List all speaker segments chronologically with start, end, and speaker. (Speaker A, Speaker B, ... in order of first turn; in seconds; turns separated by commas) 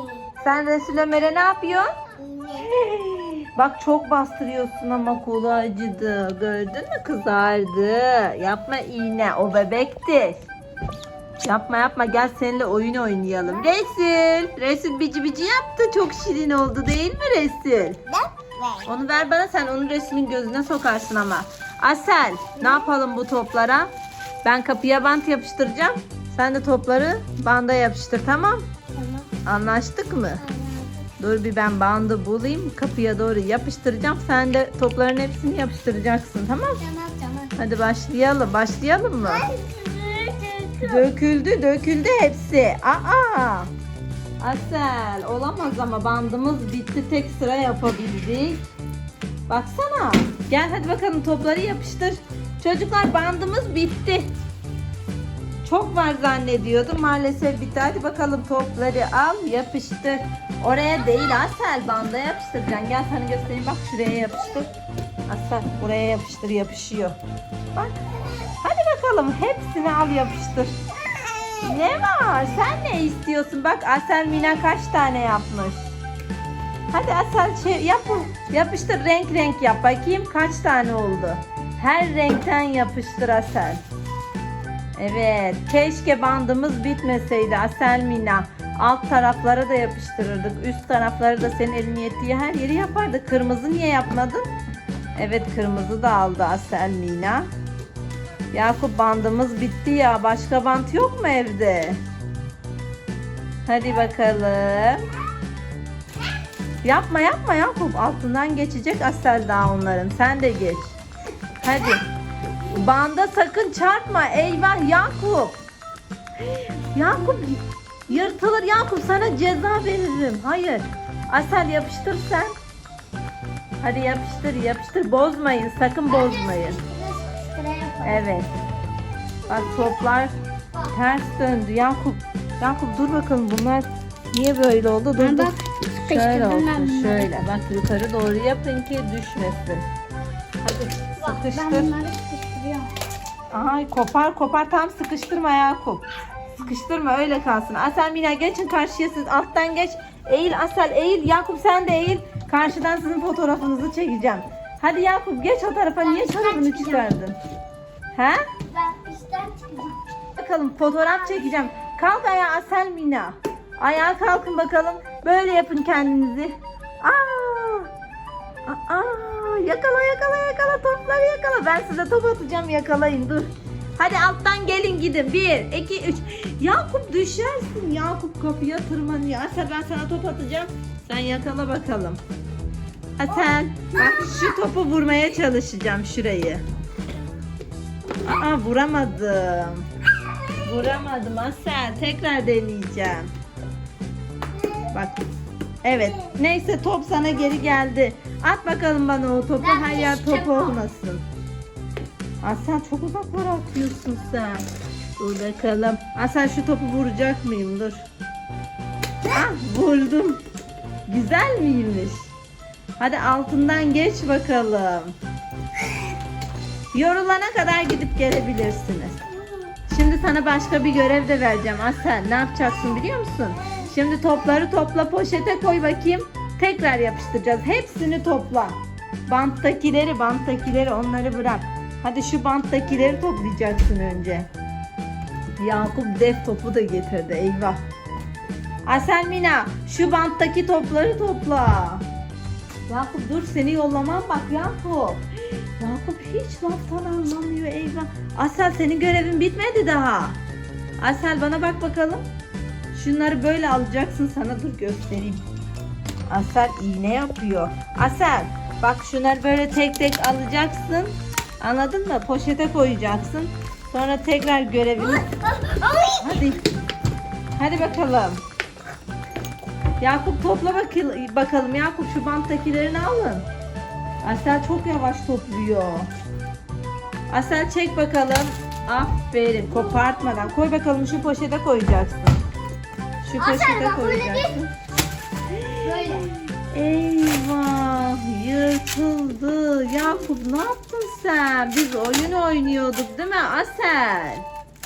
Speaker A: 0.4-1.9, Speaker B: 2.4-2.6, Speaker A: 2.6-10.5, Speaker A: 11.4-18.0, Speaker B: 18.1-18.8, Speaker A: 18.8-23.9, Speaker B: 22.6-22.9, Speaker A: 24.4-28.6, Speaker B: 28.9-29.3, Speaker A: 29.4-30.4, Speaker B: 30.4-31.0, Speaker A: 31.2-36.8, Speaker B: 36.8-37.6, Speaker A: 37.6-39.5, Speaker B: 39.2-41.1, Speaker A: 40.8-43.7, Speaker A: 44.4-48.6, Speaker A: 49.5-54.3, Speaker A: 55.6-64.7, Speaker A: 65.3-67.2, Speaker A: 68.6-70.7, Speaker A: 71.6-75.9, Speaker A: 76.9-83.8, Speaker A: 85.0-94.5, Speaker A: 95.2-97.5, Speaker A: 98.5-102.0, Speaker A: 103.7-105.1, Speaker A: 106.8-111.0, Speaker A: 111.6-112.0, Speaker A: 112.6-115.6, Speaker A: 116.5-122.5, Speaker A: 123.8-126.8, Speaker B: 126.1-128.4, Speaker A: 128.0-128.5, Speaker A: 129.5-130.3, Speaker A: 130.9-139.8, Speaker B: 135.2-137.4, Speaker A: 140.6-141.9, Speaker B: 141.2-142.9, Speaker A: 143.5-157.4, Speaker B: 156.0-157.2, Speaker A: 158.2-158.4, Speaker B: 158.7-160.0, Speaker A: 160.4-167.9, Speaker B: 161.3-161.6, Speaker A: 168.7-182.2, Speaker A: 183.2-186.6, Speaker A: 188.2-189.9, Speaker A: 190.6-193.3, Speaker B: 194.6-194.9, Speaker A: 194.9-195.2, Speaker A: 195.8-201.2, Speaker B: 199.6-200.8, Speaker A: 202.4-204.7, Speaker A: 205.2-208.0, Speaker A: 209.3-210.4, Speaker A: 211.1-212.3, Speaker A: 213.0-215.2, Speaker A: 216.9-219.2, Speaker A: 219.9-234.5, Speaker A: 235.6-237.8, Speaker A: 238.8-242.1, Speaker A: 242.9-245.2, Speaker A: 245.8-250.4, Speaker A: 251.0-252.2, Speaker A: 252.9-255.4, Speaker A: 256.3-265.3, Speaker B: 265.7-266.1, Speaker A: 266.1-266.7, Speaker A: 267.6-268.4, Speaker A: 270.0-273.5, Speaker A: 274.2-276.1, Speaker A: 277.3-282.4, Speaker A: 283.2-284.7, Speaker B: 283.4-284.6, Speaker A: 285.5-294.5, Speaker B: 285.8-286.3